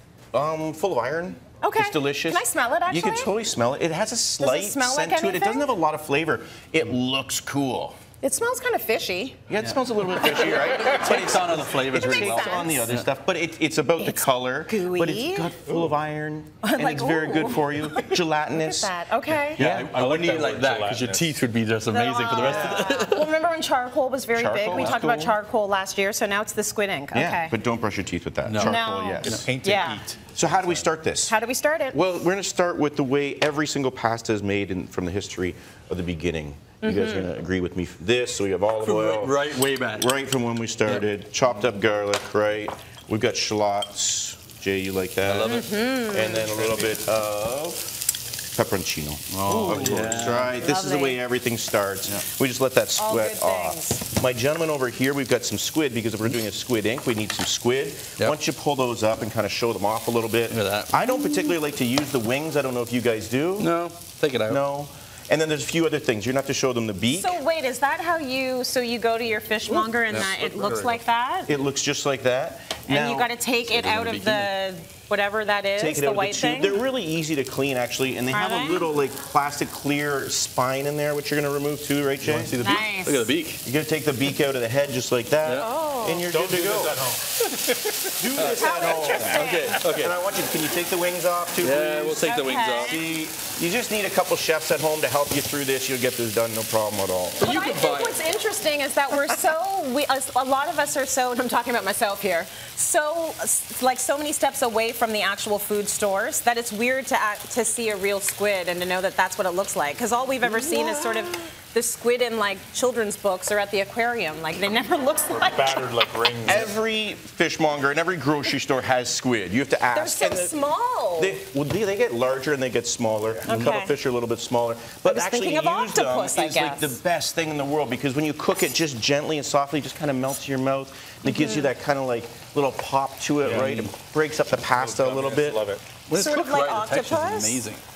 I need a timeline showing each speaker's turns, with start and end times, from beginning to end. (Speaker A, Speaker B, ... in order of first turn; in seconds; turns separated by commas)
Speaker A: 0.3-8.0, Speaker B: 1.6-3.3, Speaker B: 4.4-5.7, Speaker B: 8.2-9.4, Speaker A: 9.5-18.9, Speaker C: 9.6-13.1, Speaker B: 11.9-12.9, Speaker B: 14.0-15.5, Speaker B: 16.6-19.6, Speaker A: 19.5-19.9, Speaker C: 19.6-23.3, Speaker D: 19.7-21.4, Speaker B: 21.9-27.5, Speaker A: 22.3-23.0, Speaker A: 24.3-25.4, Speaker C: 24.7-25.0, Speaker A: 27.1-29.5, Speaker C: 28.4-29.5, Speaker B: 28.6-30.0, Speaker D: 29.2-30.3, Speaker A: 30.2-31.3, Speaker B: 31.3-32.0, Speaker A: 31.9-48.0, Speaker B: 36.8-37.3, Speaker C: 38.8-40.1, Speaker C: 45.2-45.7, Speaker B: 45.4-46.5, Speaker A: 48.5-63.7, Speaker C: 49.3-50.6, Speaker B: 50.5-51.2, Speaker B: 53.0-54.0, Speaker C: 60.5-61.0, Speaker C: 63.6-64.6, Speaker A: 64.5-67.4, Speaker B: 67.1-71.5, Speaker C: 70.1-71.0, Speaker A: 71.5-73.3, Speaker B: 72.9-76.8, Speaker C: 73.7-74.5, Speaker A: 75.8-82.6, Speaker B: 78.3-78.9, Speaker C: 82.2-83.6, Speaker B: 82.6-83.3, Speaker A: 83.6-87.1, Speaker B: 85.5-86.2, Speaker D: 86.3-87.2, Speaker C: 87.4-90.2, Speaker A: 88.2-97.4, Speaker B: 88.5-89.8, Speaker C: 91.6-93.0, Speaker B: 92.2-93.0, Speaker B: 97.4-116.0, Speaker C: 97.4-98.2, Speaker A: 110.4-111.3, Speaker D: 115.3-116.7, Speaker A: 116.4-120.5, Speaker B: 119.9-121.4, Speaker A: 121.2-135.7, Speaker B: 123.5-123.9, Speaker B: 125.0-127.0, Speaker B: 131.2-131.7, Speaker D: 133.4-133.8, Speaker C: 133.6-133.9, Speaker D: 134.7-135.8, Speaker C: 136.1-137.8, Speaker B: 136.1-137.6